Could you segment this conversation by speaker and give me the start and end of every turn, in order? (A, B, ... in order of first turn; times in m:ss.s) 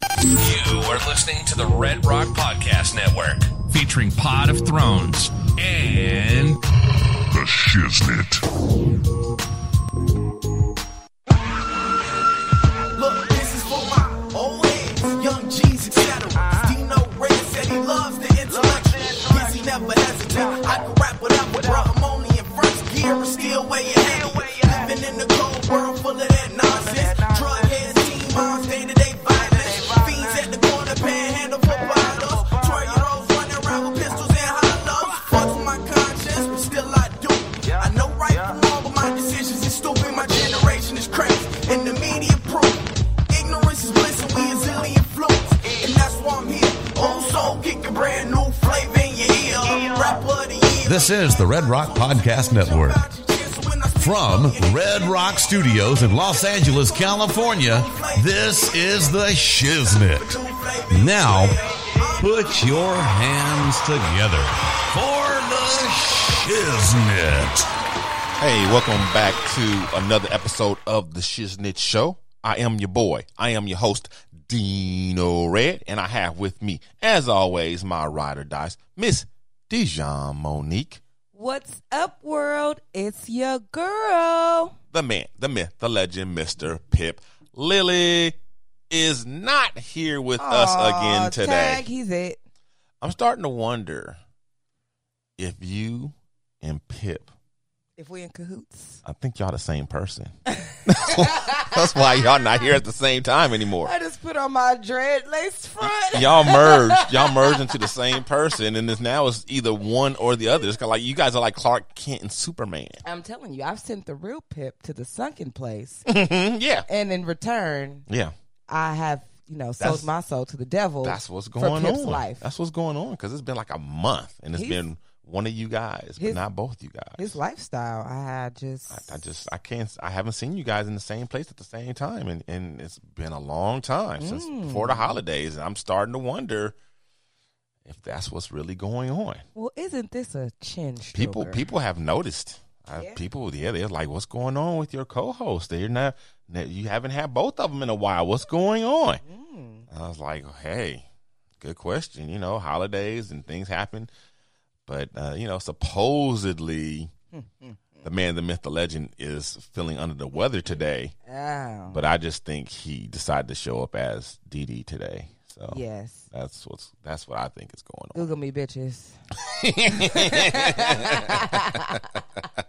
0:00.2-0:06.6 A
0:07.4-0:07.9 A
0:13.0-1:03.1 B
0:50.8-0:53.0 C
0:54.0-1:00.4 C
1:00.9-1:01.6 C
1:02.2-1:07.6 C
1:08.4-1:21.0 D
1:21.3-1:24.8 E
1:24.9-1:28.4 D
1:28.9-1:31.8 D
1:30.4-1:32.4 E
1:33.0-1:34.2 D
1:35.4-1:37.3 D
1:38.0-1:39.0 E
1:39.0-1:40.3 D
1:40.8-1:43.9 D
1:41.0-1:41.8 E
1:43.8-1:47.6 E
1:46.1-1:53.0 D
1:53.0-1:56.1 E
1:56.1-1:56.9 D
1:56.9-1:58.1 E
1:58.1-1:58.3 D
1:58.7-2:02.4 E
1:59.8-2:00.1 D
2:01.0-2:07.4 D
2:04.5-2:04.8 E
2:07.2-2:09.2 E
2:08.9-2:16.8 D
2:14.2-2:15.2 E
2:17.8-2:19.4 D
2:19.5-2:21.6 E
2:21.1-2:29.2 D
2:22.9-2:23.2 E
2:29.2-2:29.8 E
2:29.9-2:31.0 D
2:31.6-2:34.1 D
2:34.9-2:37.1 D
2:37.3-2:38.1 E
2:38.0-2:41.1 D
2:41.3-2:42.0 E
2:41.9-2:45.8 D
2:45.7-2:46.2 E
2:46.3-2:48.3 D
2:48.1-2:49.2 E
2:49.5-2:52.0 D
2:49.9-2:52.1 E